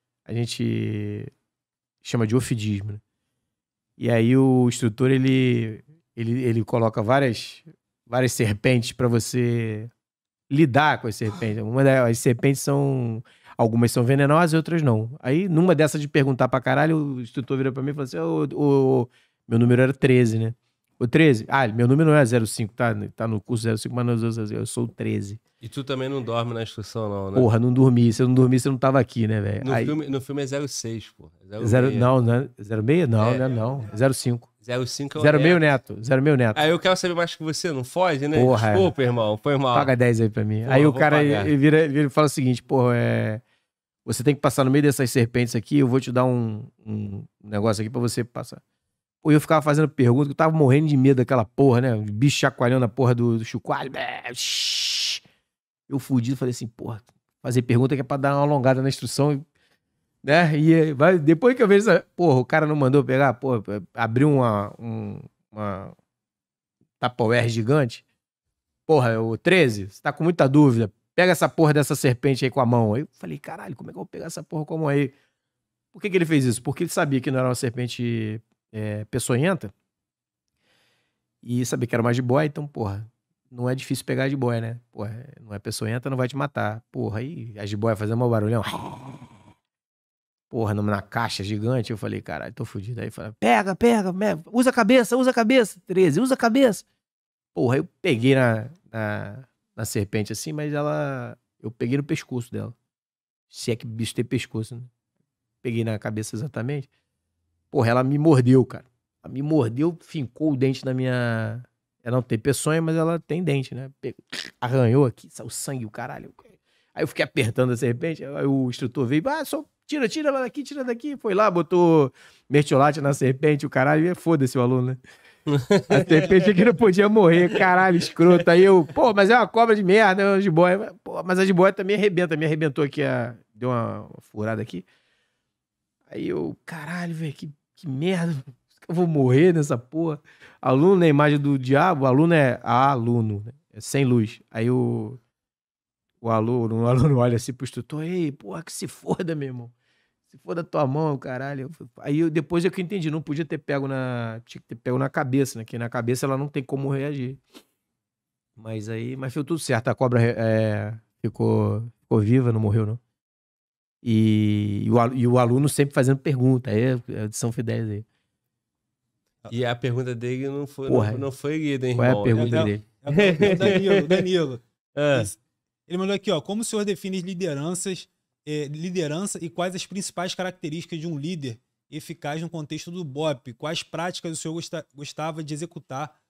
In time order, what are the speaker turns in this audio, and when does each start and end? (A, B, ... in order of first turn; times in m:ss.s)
0:00.2-0:01.3 A
0:02.0-0:03.0 A
0:04.0-0:09.9 A
0:10.5-0:25.4 A
0:25.6-0:27.5 B
0:27.3-0:30.0 A
0:29.6-0:32.1 B
0:31.6-0:34.5 A
0:33.2-0:33.5 B
0:34.6-0:35.6 B
0:35.2-0:36.6 A
0:36.5-0:39.9 B
0:38.3-0:38.9 A
0:39.7-0:43.4 A
0:40.6-0:41.5 B
0:44.0-0:48.6 A
0:49.2-0:55.2 A
0:55.9-0:59.4 A
1:00.2-1:05.9 A
1:07.0-1:08.0 A
1:08.9-1:15.1 A
1:15.9-1:19.7 A
1:21.4-1:29.3 A
1:30.5-1:36.8 A
1:37.5-1:42.7 A
1:43.5-1:44.9 A
1:45.6-1:46.9 A
1:47.7-2:05.0 A
2:05.5-2:06.5 B
2:05.9-2:14.8 A
2:16.1-2:25.2 A
2:26.2-2:29.7 A
2:30.3-2:37.4 A
2:38.6-2:43.0 A
2:44.0-2:48.0 A
2:49.5-2:54.2 B
2:50.9-2:51.3 A
2:52.0-2:52.8 A
2:52.3-3:06.1 C
2:54.9-2:55.3 B